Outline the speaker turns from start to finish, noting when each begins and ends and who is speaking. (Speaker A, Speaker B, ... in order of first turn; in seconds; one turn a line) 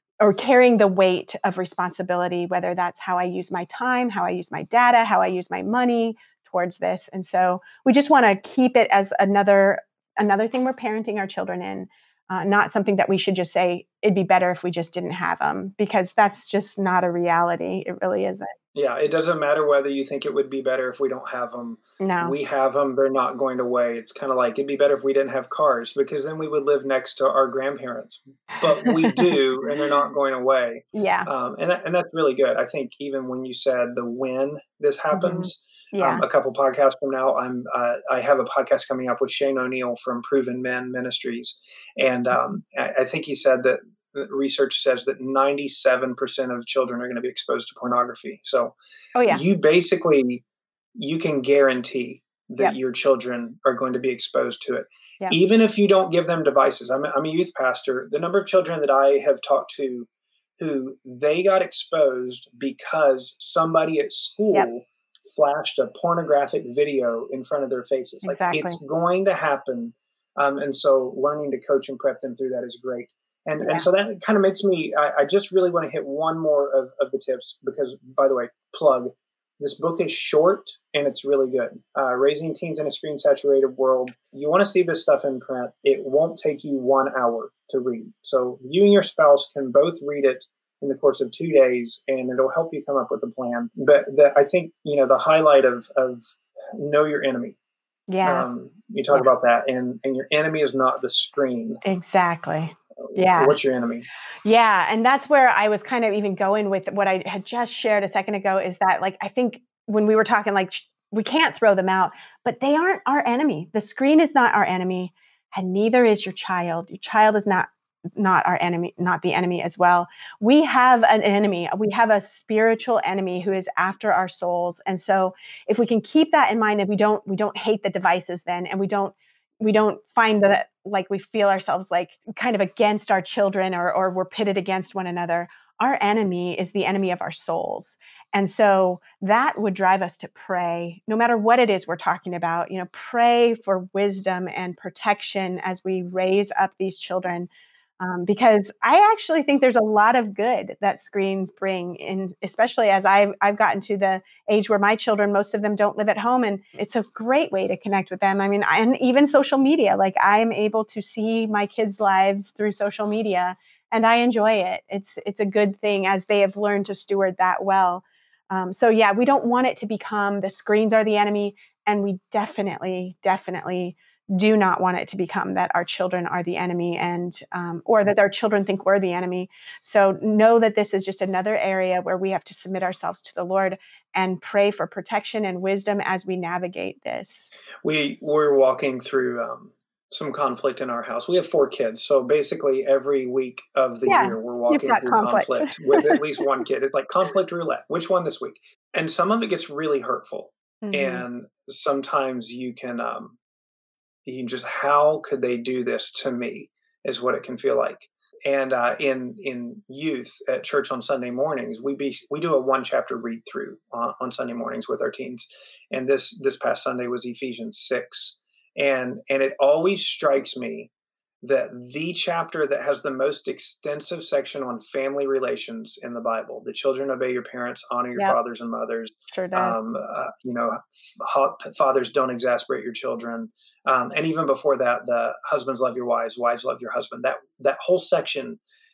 Speaker A: 0.2-18.5
Speaker B: 18.8-48.8
Speaker A: 22.0-22.4
Speaker A: 28.8-29.3
Speaker A: 30.9-31.3
Speaker A: 35.1-36.2
Speaker A: 49.1-49.4
Speaker B: 49.3-50.4
Speaker B: 51.0-97.6
Speaker A: 68.2-68.8
Speaker A: 98.1-98.5
Speaker B: 98.2-101.8
Speaker A: 101.8-103.6
Speaker B: 103.1-104.0
Speaker A: 104.5-147.5
Speaker A: 148.0-187.5
Speaker B: 187.8-203.4
Speaker A: 194.1-196.2
Speaker A: 200.8-201.2
Speaker B: 204.2-220.9
Speaker B: 221.4-238.6
Speaker A: 229.3-229.8